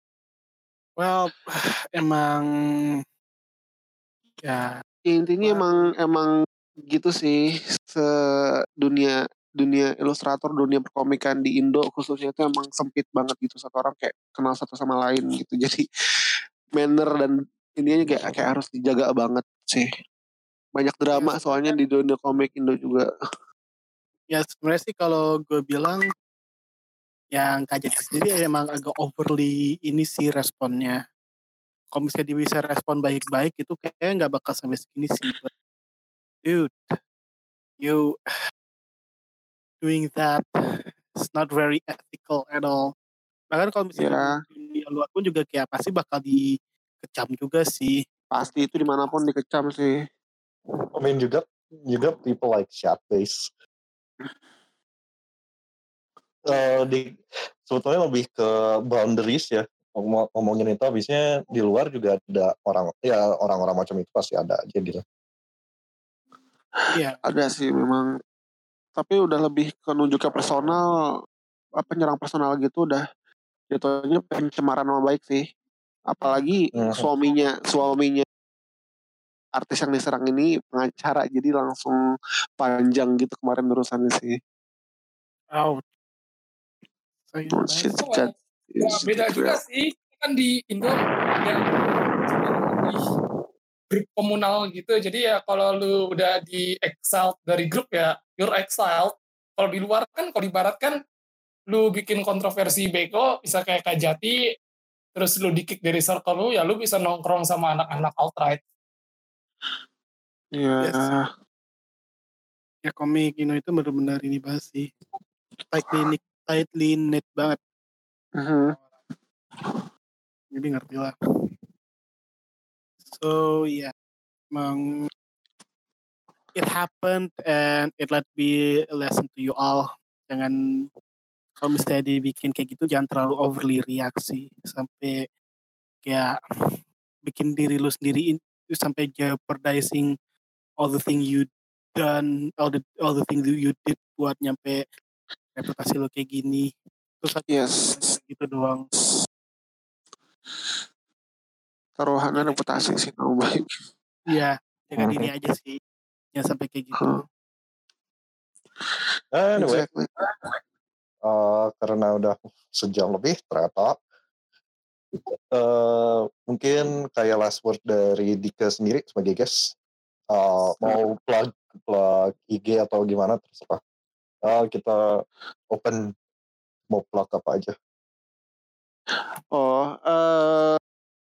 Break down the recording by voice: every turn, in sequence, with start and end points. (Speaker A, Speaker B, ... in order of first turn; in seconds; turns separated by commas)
Speaker A: 1.0-3.0, Speaker A: 4.5-4.8, Speaker B: 5.1-6.3, Speaker A: 5.4-5.9, Speaker B: 6.9-8.1, Speaker B: 8.8-15.8, Speaker B: 16.8-19.9, Speaker B: 20.8-23.1, Speaker A: 21.1-21.8, Speaker A: 24.3-26.0, Speaker A: 27.3-31.0, Speaker A: 31.9-35.5, Speaker A: 36.5-36.8, Speaker A: 37.8-38.1, Speaker A: 39.8-40.4, Speaker A: 41.2-42.9, Speaker A: 43.5-48.0, Speaker B: 44.0-44.4, Speaker B: 48.3-49.9, Speaker C: 51.0-53.5, Speaker C: 56.5-57.1, Speaker C: 57.7-65.0, Speaker B: 66.8-68.1, Speaker A: 66.9-67.2, Speaker B: 69.0-70.9, Speaker B: 71.8-73.0, Speaker B: 73.7-75.4, Speaker B: 76.1-78.2, Speaker A: 76.2-76.5, Speaker C: 76.7-77.1, Speaker B: 79.6-82.0, Speaker B: 82.6-84.4, Speaker A: 85.5-85.8, Speaker A: 87.3-87.9, Speaker B: 87.5-89.6, Speaker D: 88.0-93.0, Speaker D: 93.9-101.0, Speaker D: 101.7-104.4, Speaker D: 105.2-108.6, Speaker B: 110.5-111.2, Speaker A: 110.8-111.1, Speaker A: 112.8-114.9, Speaker A: 115.7-117.6, Speaker B: 118.4-118.8, Speaker A: 120.5-121.1, Speaker A: 123.1-123.9, Speaker A: 124.5-125.1, Speaker A: 126.6-130.6, Speaker A: 131.6-135.2, Speaker A: 136.1-136.3, Speaker A: 137.3-140.2, Speaker A: 140.8-144.8, Speaker A: 145.6-146.7, Speaker A: 147.2-148.8, Speaker B: 147.5-148.2, Speaker B: 152.0-153.6, Speaker A: 154.3-155.8, Speaker C: 155.0-155.2, Speaker A: 156.3-157.0, Speaker B: 157.0-157.2, Speaker C: 159.3-159.9, Speaker B: 159.6-160.2, Speaker C: 161.3-163.9, Speaker C: 165.5-169.6, Speaker C: 170.3-173.8, Speaker B: 170.8-171.0, Speaker C: 174.5-175.0, Speaker C: 175.7-176.0, Speaker C: 176.9-177.8, Speaker B: 179.1-180.8